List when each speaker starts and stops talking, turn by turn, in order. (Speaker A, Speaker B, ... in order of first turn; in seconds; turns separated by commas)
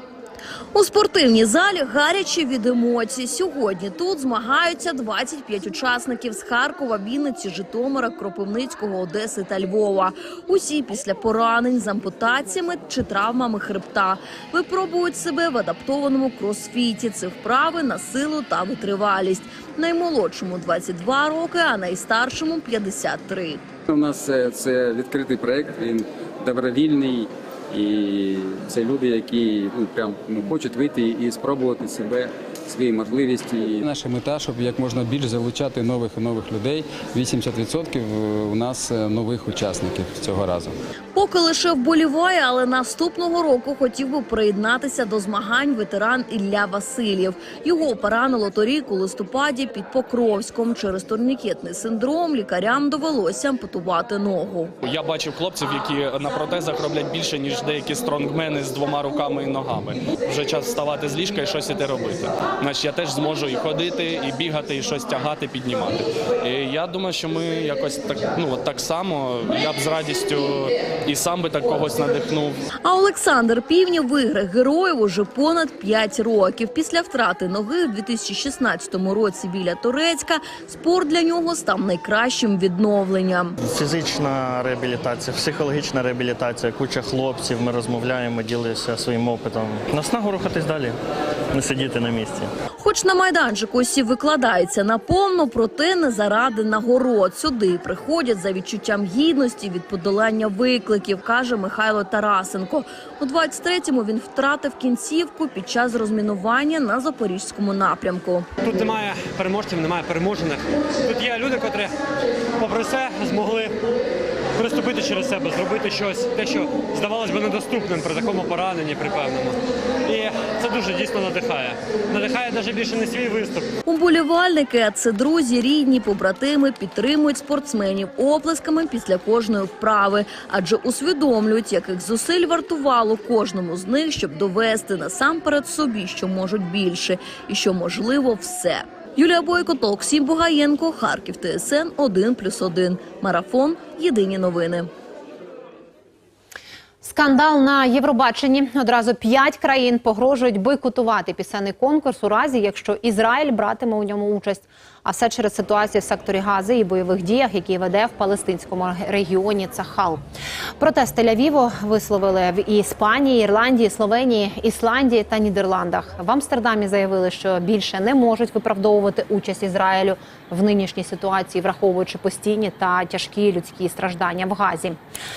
Speaker A: 0.7-23.6, Speaker B: 23.9-32.8, Speaker C: 32.8-40.7, Speaker B: 33.3-33.8, Speaker A: 41.1-54.8, Speaker D: 54.9-72.5, Speaker A: 72.8-83.6, Speaker E: 83.7-91.0, Speaker E: 91.5-92.5, Speaker A: 92.8-108.5, Speaker F: 108.6-112.0, Speaker F: 112.6-113.8, Speaker F: 114.5-123.7, Speaker A: 123.8-144.9, Speaker G: 147.0-160.2, Speaker G: 160.8-175.0